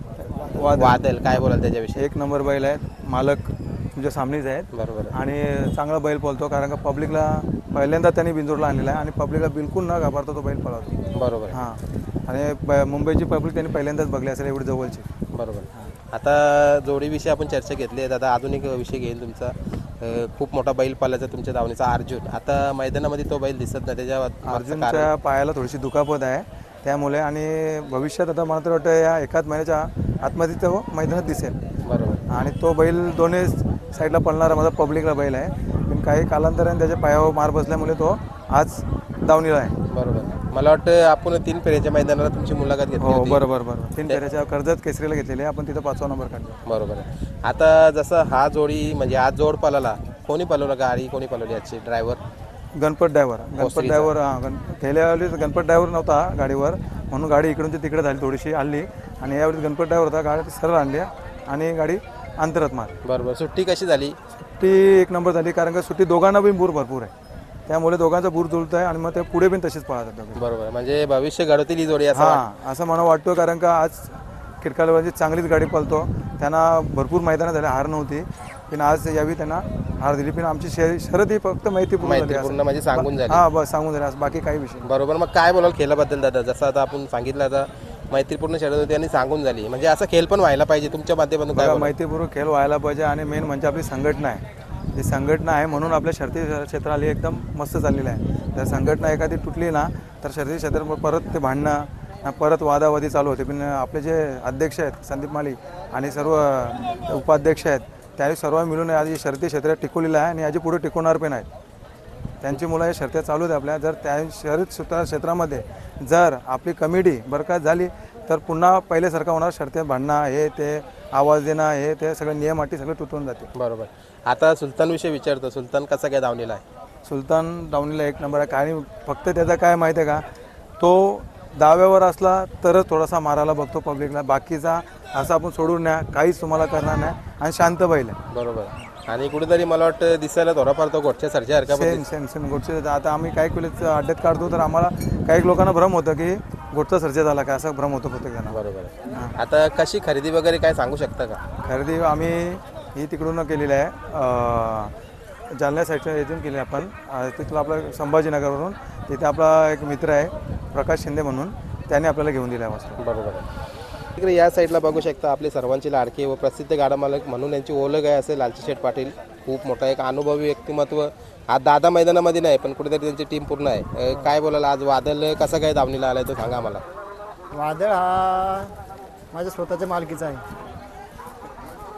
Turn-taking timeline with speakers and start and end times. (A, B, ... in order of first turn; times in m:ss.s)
0:00.2-0:01.0 A
0:00.6-0:02.0 B
0:02.0-0:11.0 A
0:04.7-0:05.2 B
0:11.2-0:11.6 B
0:11.5-0:15.1 A
0:15.3-0:25.1 B
0:24.4-0:31.6 A
0:31.8-0:32.2 B
0:32.3-0:39.8 A
0:39.9-0:43.4 B
0:43.0-0:46.6 A
0:46.7-0:52.2 B
0:52.8-1:03.0 A
0:53.6-0:54.1 B
1:03.0-1:04.2 B
1:04.6-1:07.1 A
1:07.7-1:10.4 A
1:10.4-1:12.4 B
1:12.1-1:24.9 A
1:22.0-1:23.4 B
1:24.8-1:31.9 B
1:31.6-1:34.4 A
1:35.0-1:51.5 A
1:52.4-2:03.5 A
2:03.6-2:06.6 B
2:07.1-2:10.2 A
2:10.8-2:18.2 A
2:18.3-2:22.0 B
2:21.7-2:28.6 A
2:28.5-2:31.4 B
2:29.1-2:29.3 A
2:31.6-2:34.9 A
2:35.5-2:43.0 A
2:43.0-2:43.5 B
2:44.2-2:56.8 B
2:57.5-2:58.8 C
2:59.3-3:00.4 C